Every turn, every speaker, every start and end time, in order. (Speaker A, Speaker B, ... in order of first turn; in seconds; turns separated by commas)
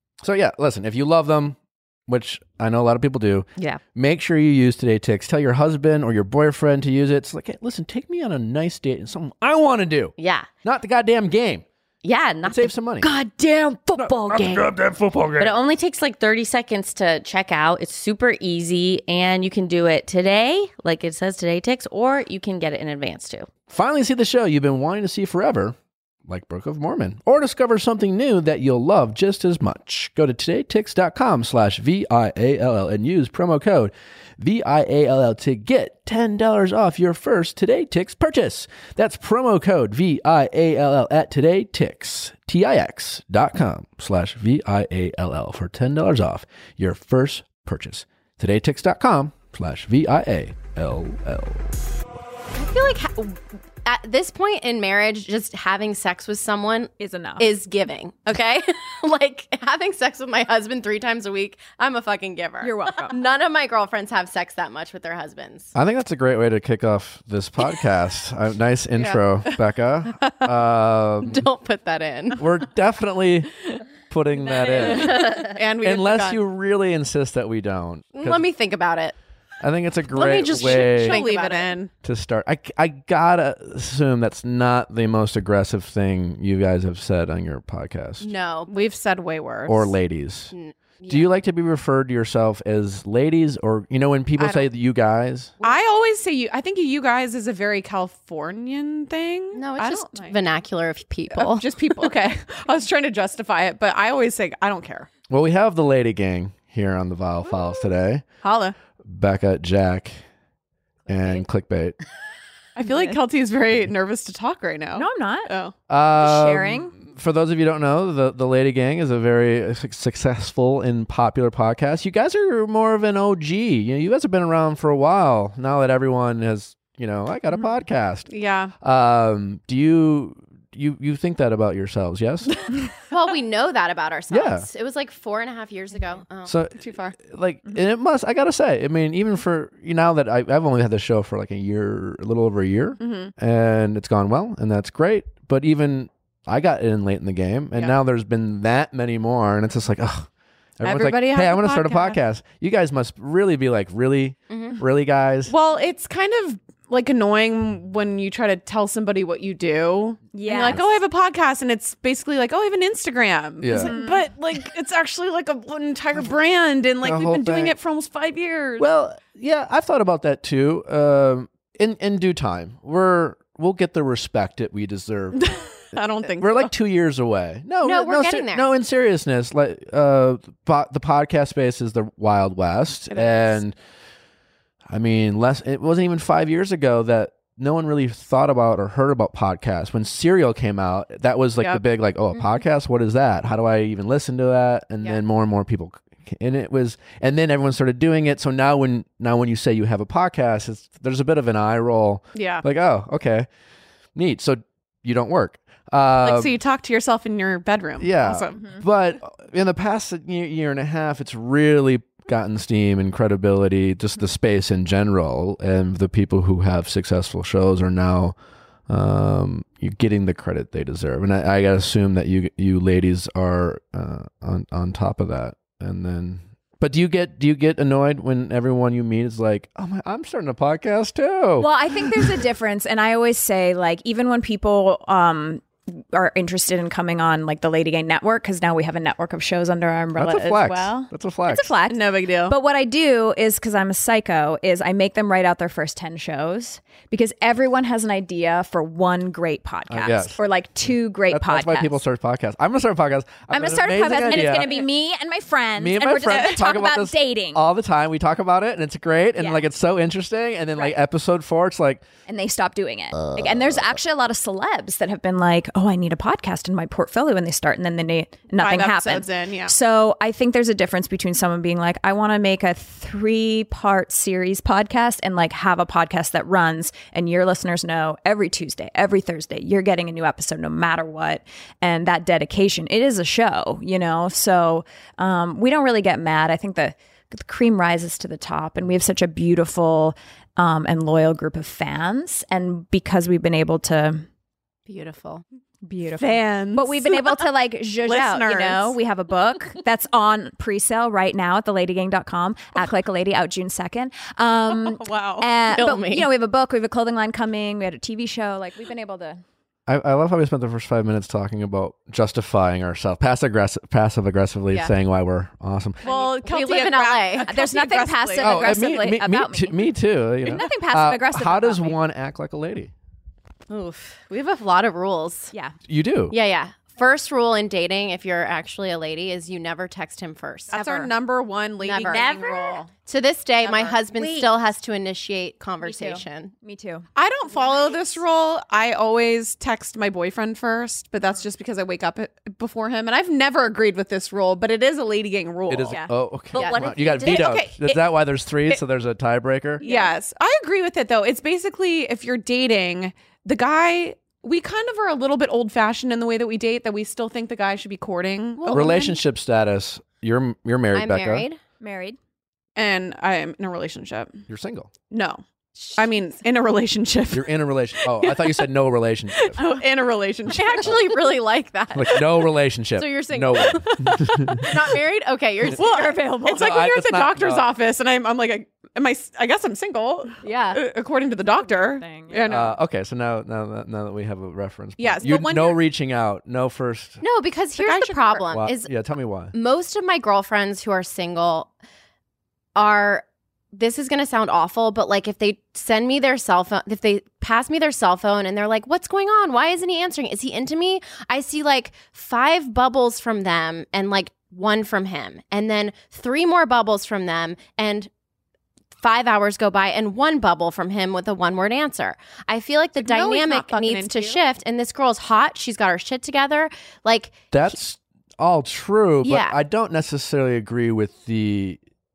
Speaker A: 0.2-11.6, Speaker B: 10.2-10.5, Speaker B: 12.0-14.7, Speaker A: 12.4-13.1, Speaker A: 13.9-15.5, Speaker B: 15.4-23.5, Speaker A: 23.7-52.0, Speaker C: 52.5-65.7, Speaker D: 57.0-57.5, Speaker D: 62.6-63.2, Speaker A: 65.7-71.4, Speaker E: 69.0-69.5, Speaker C: 71.2-72.5, Speaker A: 72.4-75.3, Speaker E: 74.7-76.4, Speaker C: 74.8-75.6, Speaker A: 75.8-78.5, Speaker C: 78.2-79.1, Speaker A: 79.6-81.3, Speaker C: 80.1-81.8, Speaker E: 80.3-81.9, Speaker A: 82.0-88.2, Speaker C: 88.2-88.8, Speaker E: 88.7-89.9, Speaker A: 89.7-90.5, Speaker C: 90.5-91.3, Speaker A: 91.1-95.5, Speaker E: 94.4-94.7, Speaker E: 95.6-100.4, Speaker C: 99.5-101.7, Speaker E: 101.3-105.1, Speaker A: 105.3-108.2, Speaker E: 108.4-108.7, Speaker A: 109.0-110.2, Speaker A: 111.1-112.0, Speaker E: 112.8-115.7, Speaker D: 112.8-113.2, Speaker D: 114.9-115.5, Speaker A: 115.9-128.3, Speaker D: 116.2-116.9, Speaker E: 128.3-128.7, Speaker A: 128.8-132.6, Speaker C: 133.1-136.9, Speaker A: 134.3-134.7, Speaker A: 136.4-150.3, Speaker E: 143.0-143.3, Speaker E: 147.7-148.0, Speaker A: 150.8-155.5, Speaker E: 150.8-152.2, Speaker C: 154.5-154.8, Speaker E: 155.5-168.8, Speaker D: 160.3-160.8, Speaker A: 163.6-163.9, Speaker D: 163.7-164.2, Speaker A: 167.0-167.8, Speaker A: 168.8-175.5, Speaker E: 175.3-176.7, Speaker A: 176.3-183.8, Speaker C: 177.8-178.7, Speaker E: 183.1-183.5, Speaker A: 184.9-203.5, Speaker E: 202.3-202.6, Speaker A: 204.1-206.5, Speaker E: 206.2-208.8, Speaker A: 208.0-218.3, Speaker A: 218.9-232.4, Speaker D: 231.6-252.0, Speaker A: 240.2-241.7, Speaker E: 241.9-242.5, Speaker A: 249.9-250.4, Speaker A: 251.3-254.8, Speaker D: 253.5-257.6, Speaker A: 255.8-262.0, Speaker D: 259.4-259.6, Speaker D: 262.3-294.3, Speaker A: 263.2-264.0, Speaker E: 268.6-269.7, Speaker C: 294.9-295.4, Speaker D: 295.8-309.4, Speaker E: 296.2-297.4, Speaker E: 298.0-299.0, Speaker E: 304.7-305.5, Speaker C: 305.7-306.3, Speaker A: 309.9-316.1, Speaker E: 316.0-318.6, Speaker C: 316.1-317.5, Speaker D: 317.5-322.0, Speaker A: 318.4-322.9, Speaker C: 323.7-325.5, Speaker A: 325.9-326.3, Speaker C: 326.3-330.7, Speaker D: 330.7-331.1, Speaker E: 330.7-332.9, Speaker C: 331.8-332.2, Speaker B: 332.1-332.7, Speaker D: 332.1-332.8, Speaker C: 333.0-336.5, Speaker B: 334.1-334.5, Speaker D: 335.8-337.1, Speaker E: 337.1-346.0, Speaker C: 337.6-338.0, Speaker A: 345.7-349.8, Speaker B: 346.5-347.6, Speaker C: 346.5-347.0, Speaker E: 347.2-348.1, Speaker E: 349.8-359.1, Speaker D: 349.8-350.1, Speaker C: 358.6-359.1, Speaker A: 358.7-361.5, Speaker C: 360.9-361.6, Speaker D: 361.8-362.2, Speaker E: 362.8-364.4, Speaker A: 364.5-364.9, Speaker E: 365.1-365.4, Speaker C: 365.8-366.1, Speaker E: 365.9-368.7, Speaker A: 367.3-369.6, Speaker E: 369.3-371.1, Speaker D: 369.6-369.8, Speaker C: 370.5-376.6, Speaker A: 371.9-374.7, Speaker E: 373.8-374.8, Speaker E: 375.7-382.7, Speaker D: 375.9-376.6, Speaker A: 376.5-377.7, Speaker C: 380.4-380.8, Speaker D: 381.5-382.5, Speaker A: 382.5-387.2, Speaker E: 385.0-385.8, Speaker C: 387.2-388.9, Speaker E: 387.8-388.5, Speaker A: 388.5-389.5, Speaker C: 389.5-391.7, Speaker C: 392.8-408.1, Speaker C: 409.0-417.7, Speaker E: 413.0-414.4, Speaker A: 417.5-421.8, Speaker C: 419.2-419.6